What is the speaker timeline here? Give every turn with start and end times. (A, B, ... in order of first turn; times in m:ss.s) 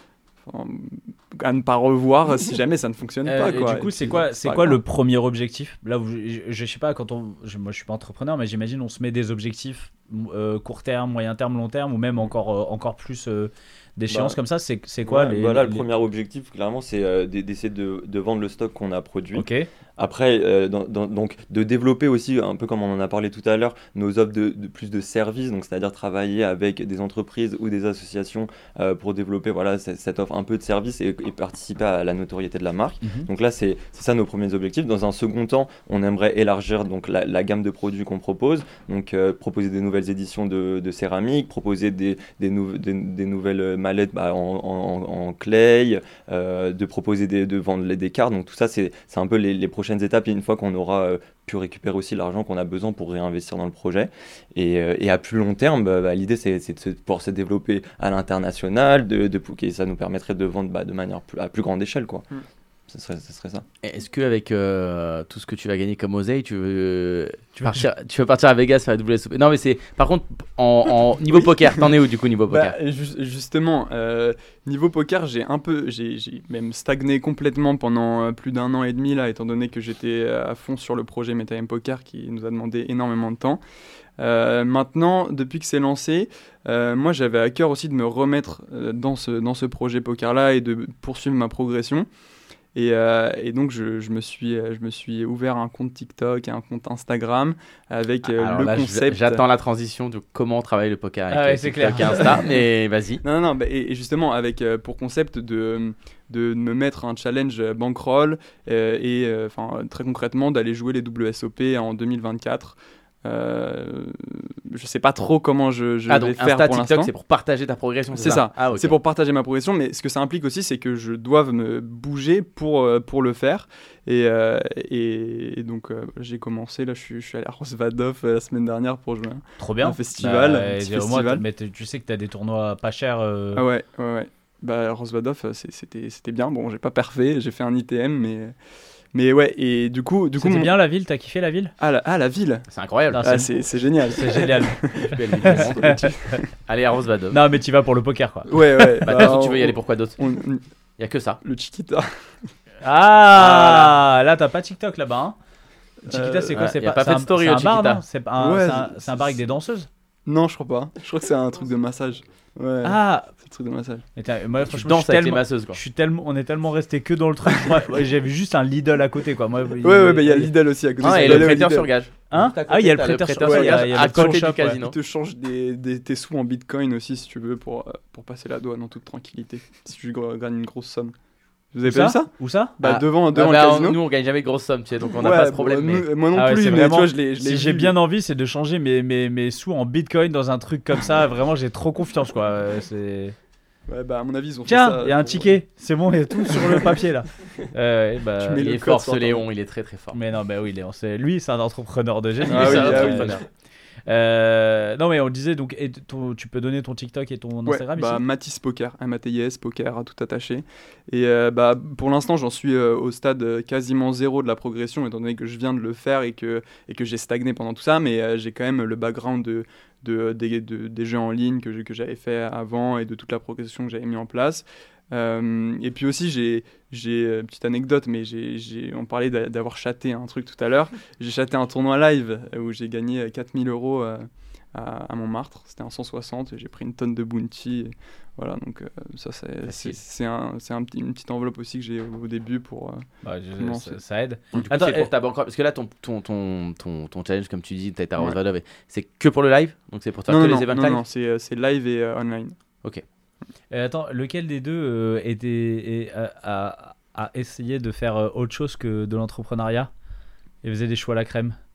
0:00.5-0:04.8 A
0:03.2-0:15.8 B
0:14.1-0:14.4 C
0:15.0-1:02.3 C
0:19.3-0:19.7 B
0:33.0-0:33.3 B
1:02.9-1:03.6 C
1:03.8-1:12.7 D
1:07.6-1:07.9 B
1:12.5-1:23.6 A
1:24.2-1:32.1 A
1:32.7-1:39.4 A
1:38.3-1:43.2 D
1:41.3-1:42.4 B
1:43.2-1:57.1 A
1:56.1-1:59.0 D
1:58.1-2:11.4 A
2:09.6-2:13.6 B
2:13.6-2:18.5 A
2:19.1-2:20.7 A
2:20.4-2:21.7 B
2:21.8-2:22.7 A
2:22.7-2:23.4 D
2:23.1-2:23.5 B
2:23.2-2:26.4 A
2:24.1-2:24.8 B
2:25.0-2:27.4 D
2:25.4-2:26.4 B
2:27.3-2:28.6 B
2:28.5-2:30.6 A
2:29.0-2:30.2 D
2:31.0-2:31.4 D
2:31.4-2:32.1 A
2:32.8-2:35.4 B
2:33.4-2:34.0 D
2:36.0-2:36.6 A
2:36.1-2:39.9 B
2:36.5-2:38.0 D
2:38.4-2:39.4 A
2:40.3-2:44.0 A
2:42.8-2:43.3 B
2:44.2-2:51.5 B
2:44.7-2:45.8 D
2:49.8-2:51.9 A
2:51.0-2:55.0 D
2:52.3-2:54.8 B
2:53.4-3:01.1 A
3:01.7-3:04.0 A
3:01.8-3:02.8 B
3:02.8-3:06.1 D
3:05.2-3:08.0 A
3:06.3-3:13.4 B
3:13.9-3:15.5 A
3:14.7-3:18.7 B
3:16.5-3:17.0 A
3:18.4-3:19.4 A
3:18.6-3:20.2 D
3:20.1-3:23.4 B
3:22.4-3:23.4 D
3:22.5-3:23.4 A
3:24.1-3:28.2 B
3:27.7-4:03.0 A
3:59.7-4:00.0 B
4:03.2-4:05.1 B
4:03.6-4:04.0 A
4:04.5-4:11.0 D
4:10.3-4:12.6 A
4:13.7-4:19.9 B
4:20.6-4:21.6 B